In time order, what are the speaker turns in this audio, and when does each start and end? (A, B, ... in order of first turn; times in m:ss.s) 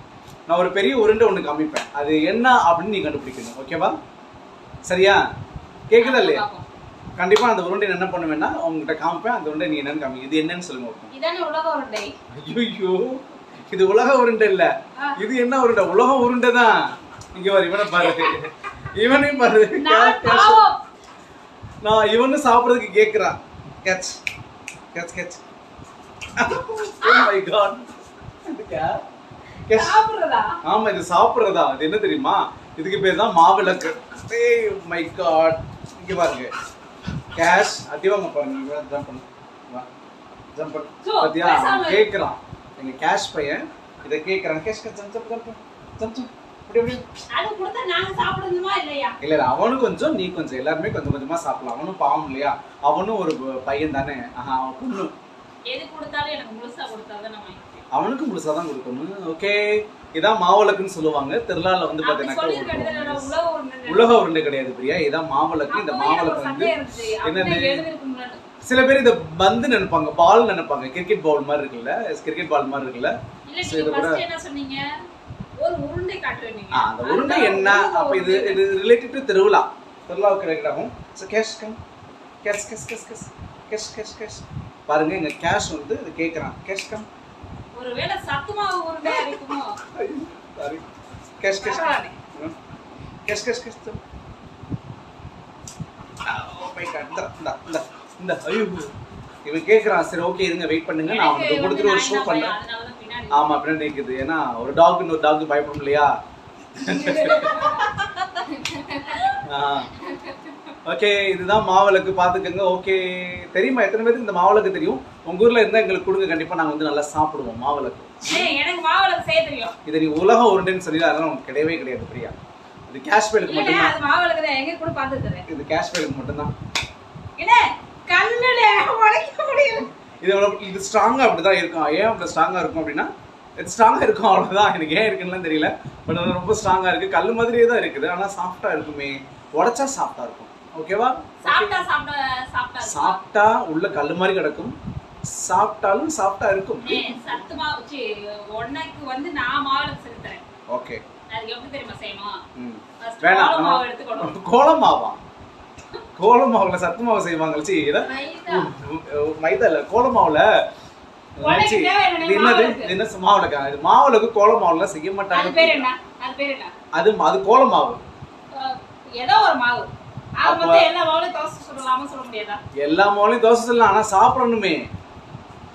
0:00.5-0:04.0 A
0:04.9-0:05.2 A
0:05.9-0:06.4 A
0:06.0-0:06.6 B
0:07.2-0:11.1 A
0:11.1-0:12.2 B
0:12.4-0:20.6 A
0:19.8-0:20.8 B
0:21.8-0:24.2 A
0:24.9-0:25.4 A
0:26.4-0:27.9 A
0:27.0-0:27.3 B
0:28.5-0:29.0 A
0:29.7-0:30.0 A
0:29.7-0:30.6 B
0:30.6-0:36.5 A
0:37.3-0:39.9 A
0:40.6-0:47.1 A
0:41.0-0:42.1 B
0:47.3-0:49.2 B
0:49.2-0:55.1 A
0:55.7-0:57.7 B
0:57.9-1:03.3 A
1:02.0-1:04.2 B
1:03.9-1:07.8 A
1:05.7-1:08.4 B
1:08.6-1:14.2 A
1:13.5-1:14.8 B
1:15.6-1:18.6 B
1:16.7-1:21.8 A
1:22.4-1:27.1 A
1:27.8-1:29.8 B
1:30.0-1:30.9 A
1:31.4-1:32.5 A
1:31.6-1:32.2 B
1:33.3-1:34.0 A
1:36.2-1:38.9 A
1:39.4-1:42.6 A
1:41.1-1:43.6 B
1:43.3-1:46.1 A
1:46.8-1:47.8 A
1:46.8-1:49.4 B
1:49.4-1:49.9 A
1:50.0-1:50.5 B
1:50.9-1:58.5 A
1:58.3-1:59.7 B
1:59.9-2:02.4 A
2:02.9-2:03.9 A
2:03.4-2:05.4 B
2:05.5-2:06.5 A
2:07.4-2:09.9 B
2:10.2-2:21.9 A
2:21.4-2:23.2 B
2:22.8-2:24.8 A
2:25.3-2:27.2 A
2:26.8-2:30.4 B
2:30.7-2:31.0 A
2:31.3-2:32.4 B
2:32.6-2:35.2 A
2:33.0-2:34.3 B
2:36.2-2:40.5 A
2:38.0-2:38.7 B
2:41.4-2:45.9 A
2:41.4-2:43.0 B
2:45.3-2:46.7 B
2:46.9-2:48.0 A
2:48.5-2:52.6 B
2:50.4-2:50.9 A
2:52.8-2:54.9 A